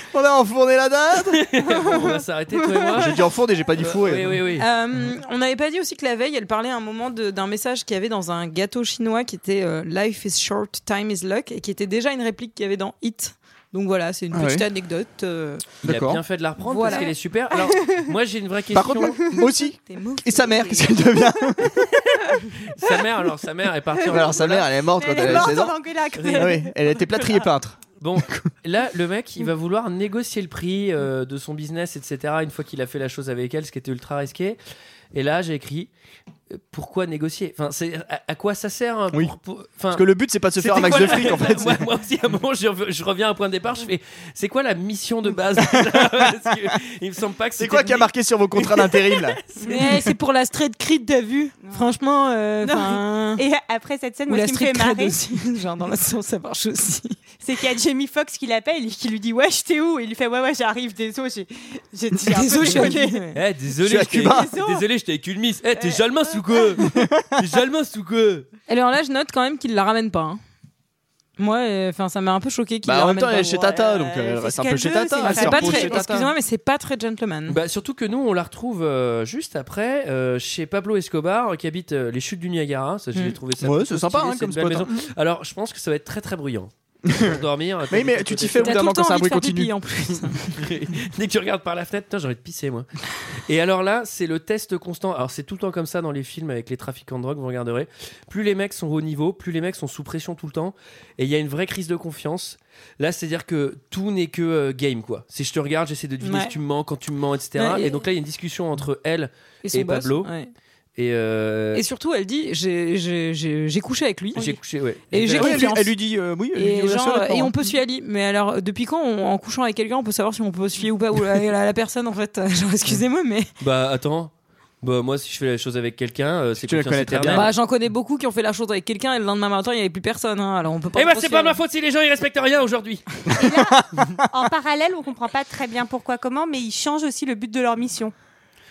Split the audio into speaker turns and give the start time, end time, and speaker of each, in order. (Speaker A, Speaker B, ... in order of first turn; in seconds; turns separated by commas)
Speaker A: 0.1-1.4, Speaker B: 1.3-3.2, Speaker A: 2.9-4.4, Speaker B: 3.8-4.7, Speaker C: 4.5-15.8, Speaker A: 14.3-14.7, Speaker B: 15.8-19.2, Speaker A: 15.8-16.2, Speaker C: 16.6-17.1, Speaker A: 18.7-21.9, Speaker C: 19.9-21.2, Speaker B: 22.7-25.5, Speaker D: 24.0-24.4, Speaker A: 24.1-25.8, Speaker D: 25.0-27.4, Speaker B: 26.1-26.5, Speaker A: 26.3-28.5, Speaker B: 28.0-34.6, Speaker B: 35.1-35.9, Speaker B: 36.5-49.7, Speaker A: 39.9-41.8, Speaker A: 47.6-49.4, Speaker C: 49.6-53.4, Speaker D: 51.6-51.9, Speaker D: 52.6-55.2, Speaker C: 54.3-57.2, Speaker D: 57.4-63.2, Speaker C: 62.3-63.4, Speaker B: 63.3-68.5, Speaker A: 63.8-64.5, Speaker D: 64.1-64.8, Speaker D: 65.8-66.6, Speaker A: 66.9-67.3, Speaker C: 68.7-70.4, Speaker C: 71.4-73.6, Speaker A: 72.8-76.3, Speaker D: 73.5-76.1, Speaker C: 75.2-77.6, Speaker B: 77.5-88.8, Speaker A: 83.6-85.1, Speaker A: 87.0-90.3, Speaker C: 88.6-90.6, Speaker B: 90.5-92.9, Speaker B: 93.4-110.3, Speaker C: 106.2-106.5, Speaker C: 107.5-108.0, Speaker C: 109.6-110.5, Speaker B: 111.0-111.8, Speaker C: 111.7-116.0, Speaker B: 114.3-115.6, Speaker A: 115.4-117.7, Speaker C: 116.5-123.5, Speaker B: 123.6-127.5, Speaker A: 126.6-127.5, Speaker C: 127.3-131.6, Speaker B: 130.9-133.2, Speaker D: 133.3-138.1